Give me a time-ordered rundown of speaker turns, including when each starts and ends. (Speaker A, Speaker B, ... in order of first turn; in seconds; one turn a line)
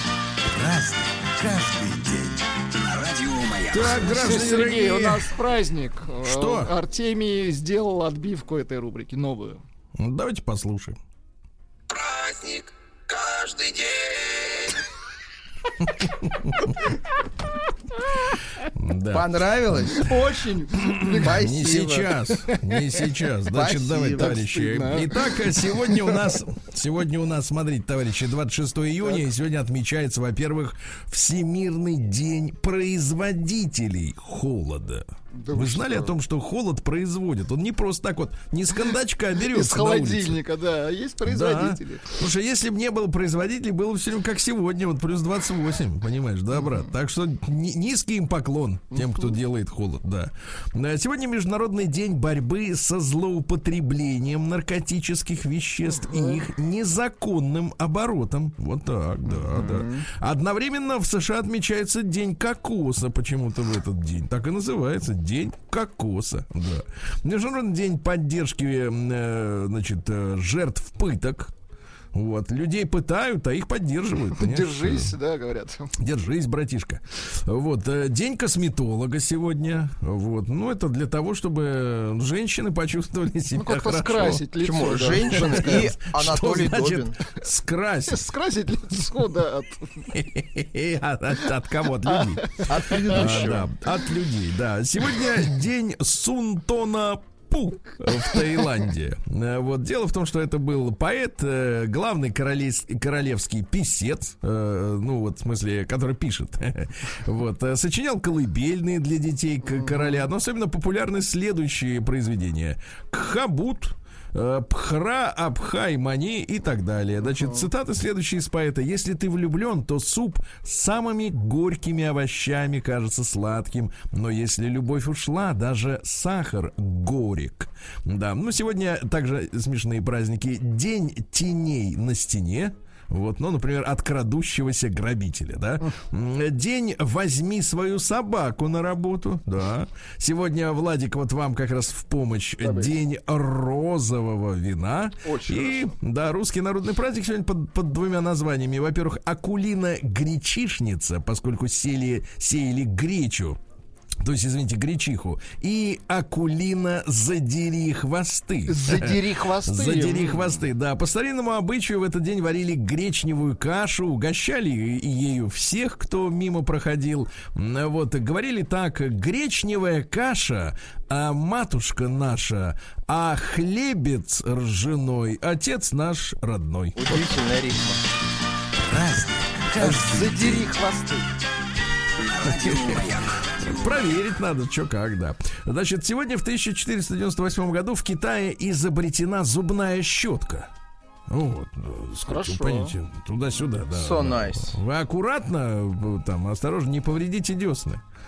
Speaker A: 0.5-4.3
Speaker B: 3.7-5.3
Speaker C: 4.0-9.6
Speaker B: 6.2-6.7
Speaker B: 10.0-11.0
Speaker B: 15.8-16.7
Speaker B: 18.7-19.9
Speaker D: 19.1-20.0
Speaker C: 19.9-21.4
Speaker B: 21.1-40.4
Speaker D: 21.2-22.1
Speaker D: 23.5-24.3
Speaker C: 24.2-26.2
Speaker C: 35.4-36.1
Speaker C: 39.5-42.1
Speaker B: 41.2-71.5
Speaker C: 46.5-46.9
Speaker C: 48.9-49.3
Speaker C: 59.3-60.0
Speaker B: 72.1-75.1
Speaker C: 74.3-75.9
Speaker B: 76.0-84.4
Speaker C: 83.6-85.9
Speaker D: 84.6-87.1
Speaker B: 85.5-88.4
Speaker C: 88.1-90.1
Speaker B: 90.1-153.6
Speaker C: 92.1-93.4
Speaker D: 92.7-93.7
Speaker C: 109.7-110.2
Speaker C: 117.2-117.7
Speaker C: 142.6-142.9
Speaker C: 145.2-145.9
Speaker B: 154.2-177.2
Speaker C: 158.7-160.7
Speaker D: 176.9-178.0
Speaker A: 178.9-180.6
Speaker C: 179.8-181.3
Speaker A: 182.2-184.1
Speaker B: 182.4-183.1
Speaker B: 183.6-190.7
Speaker B: 191.3-198.0
Speaker C: 192.3-192.9
Speaker D: 193.9-194.7